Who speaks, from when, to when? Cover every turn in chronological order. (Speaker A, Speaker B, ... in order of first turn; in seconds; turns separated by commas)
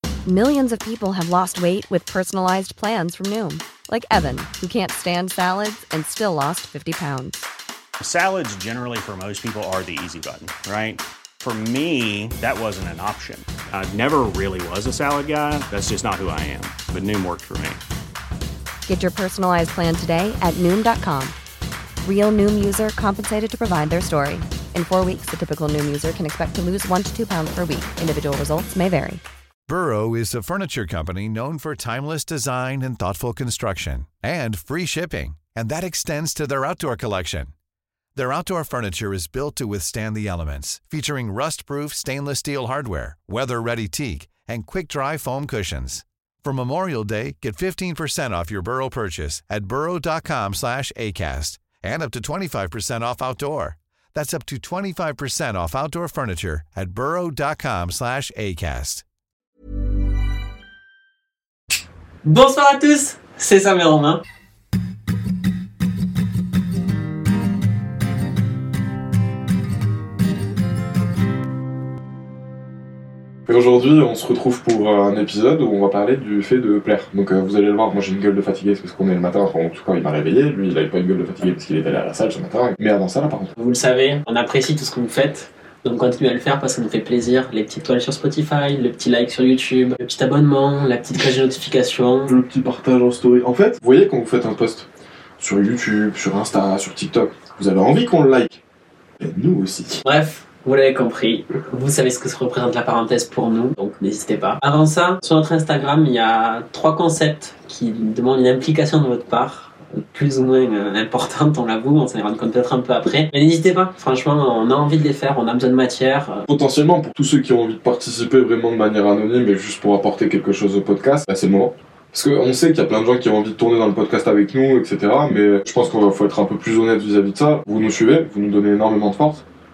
Speaker A: 0.3-7.4, Speaker B: 8.0-17.8, Speaker A: 18.9-21.4, Speaker A: 22.0-29.2, Speaker C: 29.7-37.5, Speaker C: 38.1-59.0, Speaker D: 62.2-64.2, Speaker E: 73.5-83.5, Speaker D: 83.6-92.4, Speaker E: 92.3-94.9, Speaker E: 95.4-98.6, Speaker E: 99.2-100.0, Speaker D: 100.0-116.5, Speaker E: 116.5-129.5